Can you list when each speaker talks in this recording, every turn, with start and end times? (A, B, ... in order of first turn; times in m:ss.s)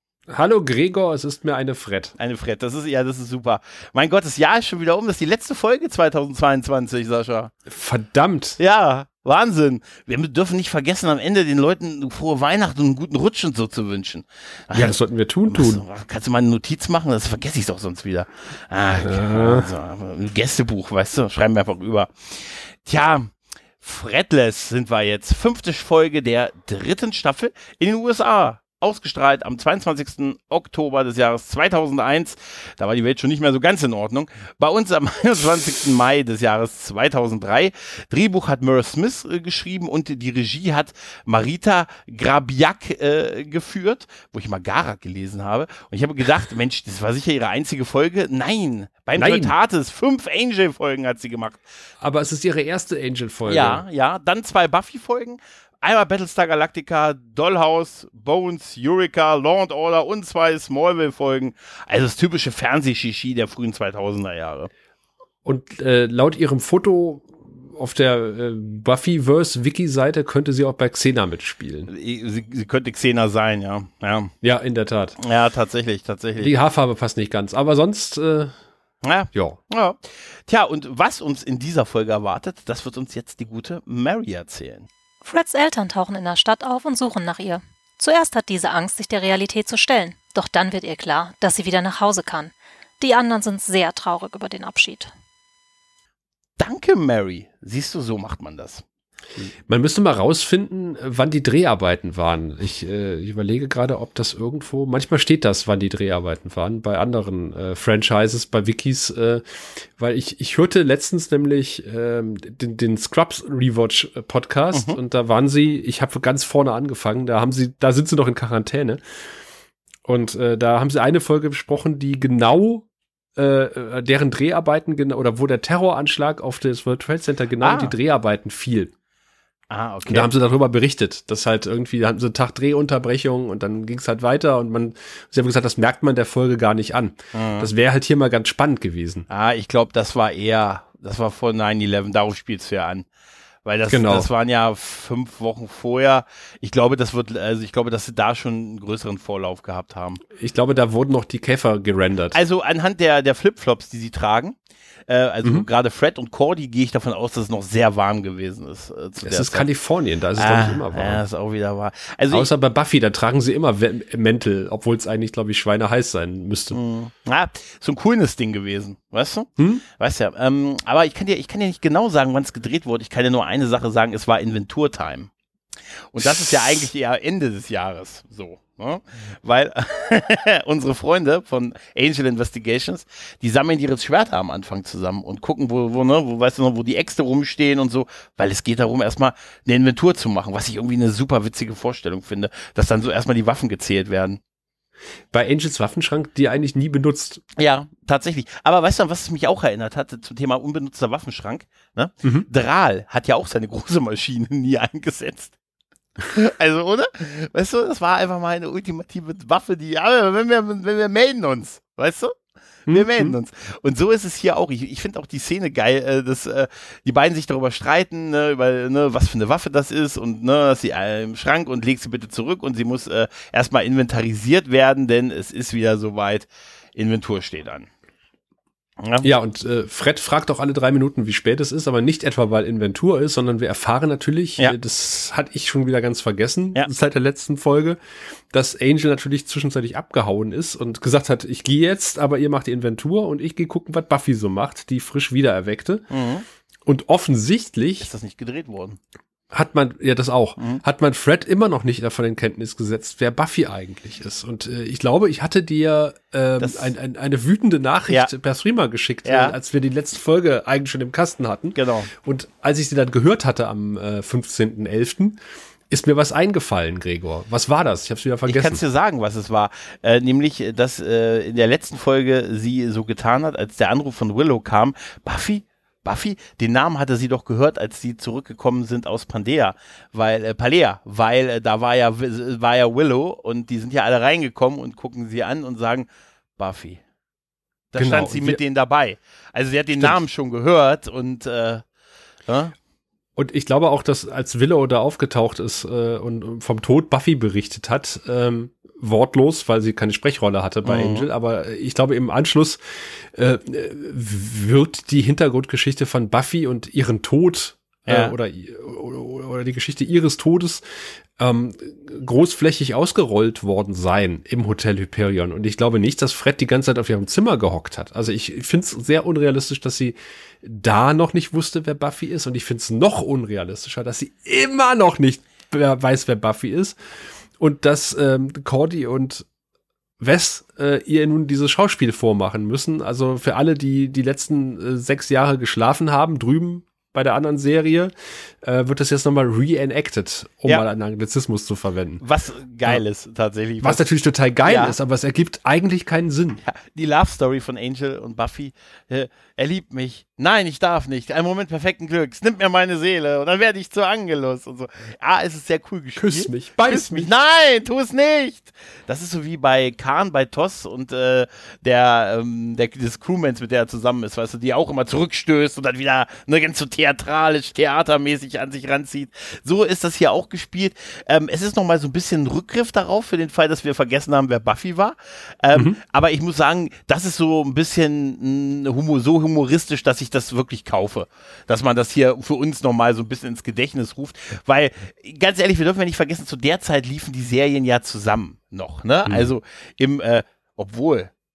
0:00.3-0:02.2 A
0:02.2-0:07.5 B
0:07.7-0:08.6 A
0:08.6-0:15.0 B
0:14.7-0:15.8 A
0:15.5-0:51.6 B
0:19.0-0:19.7 A
0:49.1-0:49.5 A
0:52.0-0:53.8 A
0:53.4-1:04.7 B
1:05.4-1:11.9 A
1:11.9-1:14.3 B
1:14.4-1:15.2 A
1:15.2-1:16.5 B
1:16.4-1:18.5 A
1:19.0-1:24.9 B
1:19.3-1:19.6 A
1:25.2-1:35.1 C
1:36.6-1:38.8 B
1:39.7-1:59.0 A
1:54.7-1:55.0 B
2:00.0-2:08.9 A
2:07.6-2:07.9 B
2:09.7-2:10.3 B
2:10.1-2:19.3 A
2:17.3-2:17.7 B
2:19.3-2:23.0 B
2:23.6-2:30.2 B
2:23.9-2:24.3 A
2:30.4-2:32.4 A
2:32.3-2:34.6 B
2:35.1-2:39.7 B
2:39.2-2:41.2 A
2:40.4-2:42.5 B
2:42.3-2:46.8 A
2:46.7-2:55.3 B
2:49.6-2:49.8 A
2:56.1-3:14.4 B
2:56.2-2:56.9 A
3:15.3-3:17.4 A
3:17.6-3:25.5 B
3:22.2-3:22.5 A
3:26.2-3:32.3 B
3:32.9-3:47.9 B
3:32.9-3:33.3 A
3:49.0-3:49.3 B
3:49.2-3:58.0 A
3:58.5-4:06.1 A
4:06.1-4:06.4 B
4:06.8-4:08.1 A
4:08.0-4:09.0 B
4:09.5-4:25.4 A
4:10.6-4:10.8 B
4:16.6-4:16.9 B
4:19.2-4:19.6 B
4:21.7-4:22.1 B
4:25.9-4:28.8 A
4:28.4-4:47.0 B
4:47.9-4:51.8 B
4:48.0-4:48.6 A
4:52.5-4:52.7 B
4:53.4-5:02.8 A
5:00.8-5:01.3 B
5:03.3-5:10.8 A
5:08.1-5:08.3 B
5:11.4-5:27.0 A
5:27.6-5:29.4 A
5:30.2-5:38.1 A
5:38.6-5:42.2 A
5:42.2-5:44.0 B
5:43.8-5:46.6 A
5:44.6-5:45.0 B
5:46.6-6:31.3 B
5:56.2-5:57.3 A
6:15.7-6:16.0 A